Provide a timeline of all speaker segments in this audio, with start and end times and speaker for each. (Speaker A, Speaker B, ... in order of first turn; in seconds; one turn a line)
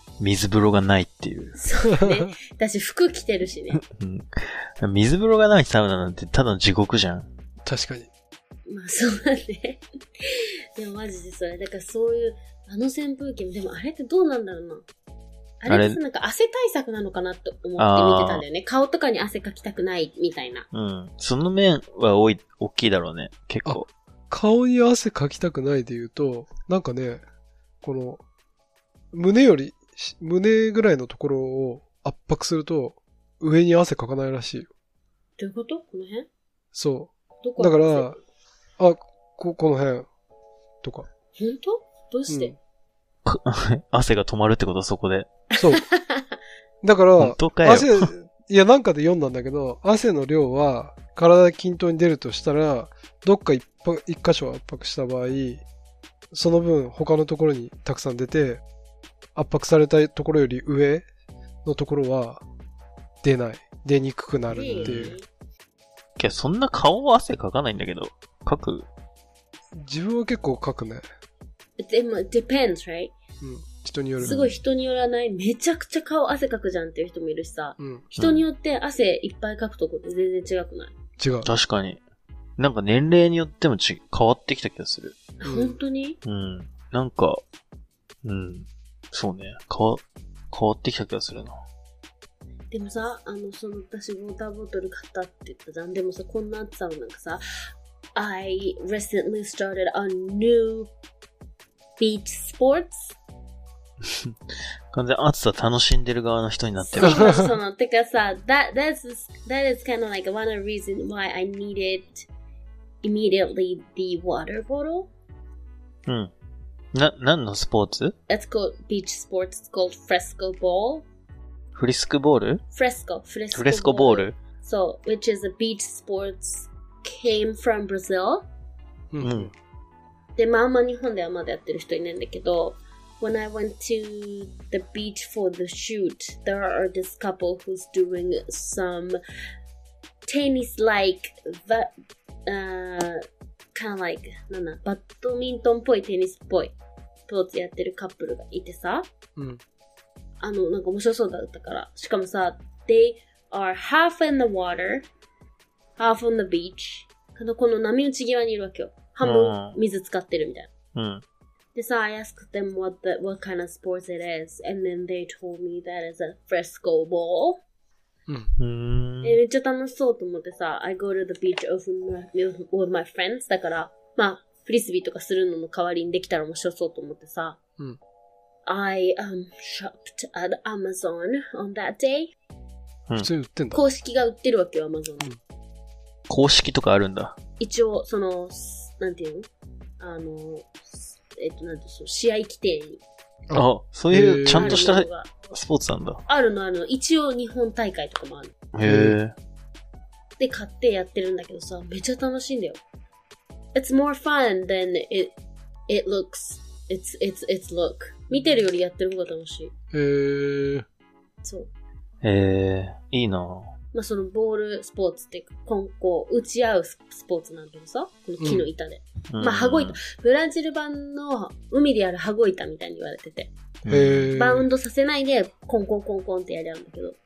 Speaker A: 0.2-1.6
Speaker B: 1.6-3.8
Speaker A: 3.7-7.3
Speaker C: 7.6-8.1
Speaker B: 8.7-14.8
Speaker B: 15.6-20.6
Speaker A: 15.7-16.0
Speaker A: 17.8-18.4
Speaker A: 20.7-23.9
Speaker C: 23.6-27.2
Speaker C: 27.8-28.2
Speaker C: 29.1-34.7
Speaker B: 35.4-36.3
Speaker C: 36.7-38.1
Speaker B: 37.4-38.2
Speaker C: 38.8-40.1
Speaker C: 40.8-41.1
Speaker B: 41.4-42.5
Speaker C: 42.3-42.5
Speaker A: 43.2-45.3
Speaker C: 45.6-45.8
Speaker B: 45.7-46.4
Speaker C: 46.8-55.6
Speaker A: 47.2-48.1
Speaker C: 56.3-58.6
Speaker C: 59.3-61.1
Speaker C: 61.6-62.4
Speaker C: 63.2-65.2
Speaker B: 64.5-65.3
Speaker A: 64.8-65.1
Speaker A: 66.2-68.9
Speaker C: 69.7-71.0
Speaker B: 71.8-73.1
Speaker C: 73.4-74.4
Speaker B: 74.2-80.9
Speaker A: 74.2-74.6
Speaker C: 77.8-78.0
Speaker A: 78.2-78.4
Speaker C: 81.2-81.5
Speaker A: 81.4-82.0
Speaker A: 82.6-85.2
Speaker B: 85.4-86.2
Speaker C: 85.4-85.8
Speaker A: 86.2-87.4
Speaker A: 88.2-91.6
Speaker B: 92.7-97.4
Speaker B: 98.1-100.9
Speaker B: 102.0-103.1
Speaker A: 104.0-104.3
Speaker A: 104.9-107.3
Speaker B: 106.8-112.3
Speaker C: 107.0-107.5
Speaker B: 113.0-115.1
Speaker A: 116.0-116.3
Speaker A: 116.9-118.1
Speaker B: 118.3-121.0
Speaker A: 121.7-122.6
Speaker B: 122.7-128.4
Speaker A: 123.5-124.3
Speaker C: 129.1-129.5
Speaker A: 129.2-129.5
Speaker B: 130.4-139.2
Speaker B: 140.3-141.9
Speaker B: 142.4-143.2
Speaker B: 143.7-146.7
Speaker B: 147.3-149.1
Speaker B: 150.4-155.1
Speaker B: 156.0-160.7
Speaker A: 159.2-159.8
Speaker A: 160.9-161.2
Speaker B: 161.7-167.6
Speaker A: 168.6-169.4
Speaker B: 169.2-177.6
Speaker B: 178.7-182.3
Speaker C: 183.2-183.8
Speaker B: 183.7-185.3
Speaker A: 186.3-187.4
Speaker B: 187.6-189.5
Speaker B: 190.0-193.0
Speaker C: 193.5-194.8
Speaker A: 193.5-196.2
Speaker B: 194.5-195.3
Speaker B: 196.3-198.5
Speaker A: 198.7-199.3
Speaker C: 198.8-199.2
Speaker B: 200.4-202.8
Speaker B: 203.7-205.3
Speaker B: 205.9-209.7
Speaker C: 209.9-210.8
Speaker B: 211.4-211.7
Speaker A: 212.2-213.7
Speaker B: 213.9-223.5
Speaker C: 218.4-218.7
Speaker A: 219.3-220.0
Speaker A: 223.8-224.3
Speaker C: 223.9-224.7
Speaker B: 224.3-227.2